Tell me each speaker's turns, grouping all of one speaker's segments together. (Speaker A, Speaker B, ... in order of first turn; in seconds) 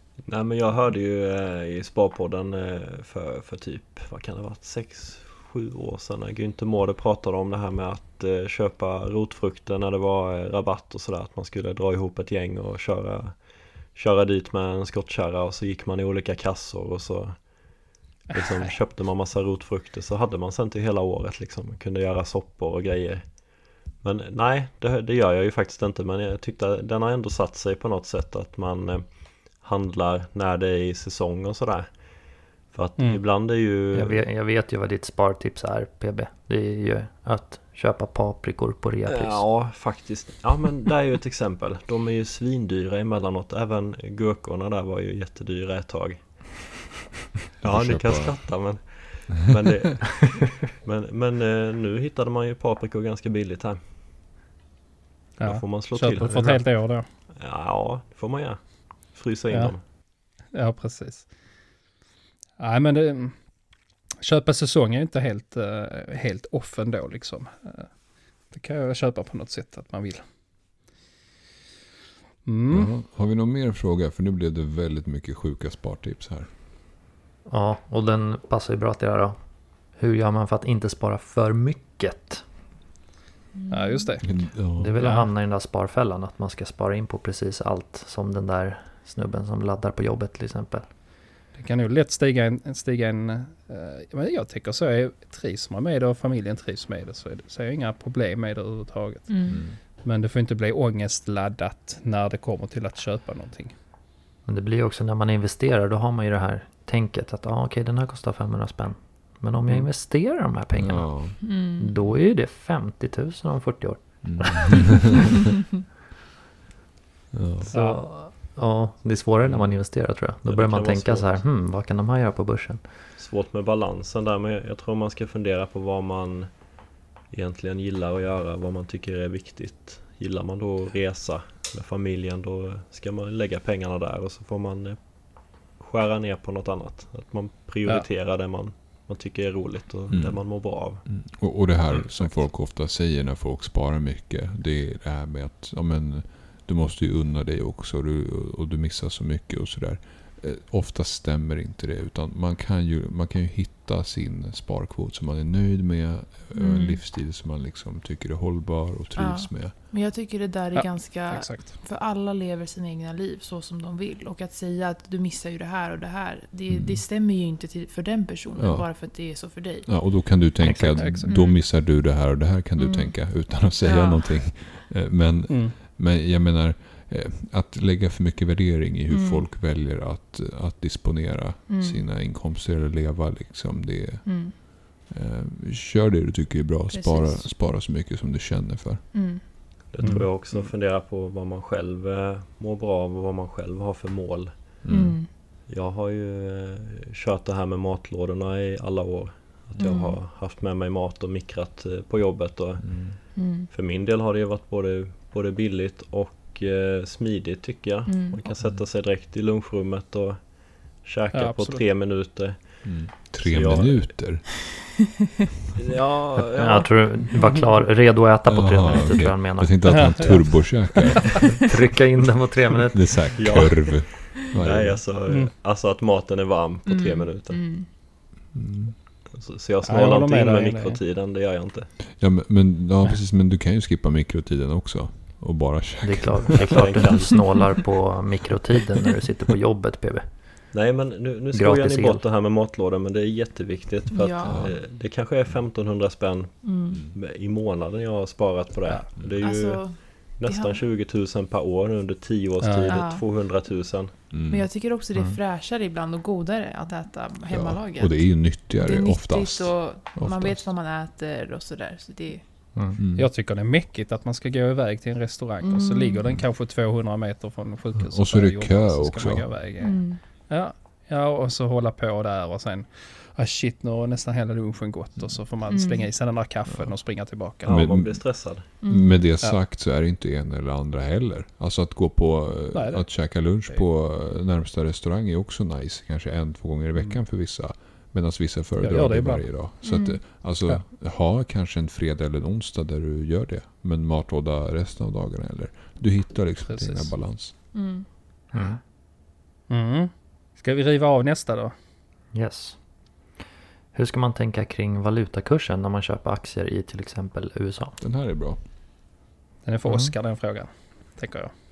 Speaker A: 0.2-34.2, 39.1-46.8, 47.6-53.8, 55.4-59.8, 119.5-119.9, 120.5-121.4, 123.2-141.2, 141.9-142.4, 189.9-195.0, 195.7-214.3, 215.8-217.3, 223.4-227.7, 229.3-232.0, 236.5-237.6, 240.7-254.2, 277.6-278.7
Speaker B: 18.3-18.8, 33.0-33.2, 55.4-57.1, 59.5-61.3, 62.6-63.6, 64.2-70.2, 72.5-72.9, 83.7-85.3, 91.5-103.8, 117.6-118.1, 160.7-161.8, 171.0-171.4, 175.5-175.8, 190.0-190.3, 211.3-211.8, 219.9-220.7, 225.3-225.5, 229.8-231.0, 252.6-253.0, 263.1-277.9, 282.7-283.8, 288.8-289.8, 296.7-297.2, 299.7-301.8, 309.6-311.5
Speaker C: 33.9-39.5, 77.5-82.5, 84.8-90.9, 104.5-115.0, 117.6-122.8, 170.6-171.2, 216.4-220.9, 221.5-223.5, 236.0-240.3, 241.5-242.2, 298.5-298.8, 302.3-302.8, 303.9-308.0, 309.9-310.1
Speaker D: 47.6-48.7, 72.7-76.5, 84.2-85.0, 99.5-99.8, 110.8-111.4, 114.2-115.0, 117.3-117.7, 140.1-159.8, 166.7-167.0, 168.6-189.5, 194.8-195.2, 199.8-200.0, 202.8-203.2, 208.6-208.8, 212.8-214.7, 218.4-221.7, 222.9-225.1, 228.5-229.0, 232.1-237.1, 244.4-244.9, 246.9-247.2, 254.3-254.7, 257.5-260.7, 263.0-263.3, 267.9-269.6, 277.7-297.5, 308.0-308.6
Speaker E: 83.5-84.1, 99.3-99.7, 111.4-112.0, 156.5-157.0, 159.2-170.3, 171.3-171.7, 172.8-174.5, 179.1-179.4, 181.7-182.0, 184.2-184.5, 186.9-187.7, 189.1-189.4, 194.9-195.3, 199.8-200.2, 203.4-203.7, 208.1-208.4, 226.9-227.9, 244.1-244.8, 246.6-247.0, 249.4-250.8, 252.9-253.2, 254.5-262.4, 265.6-266.2, 269.8-270.2, 275.7-276.1, 278.8-279.3, 289.8-290.4, 297.7-298.1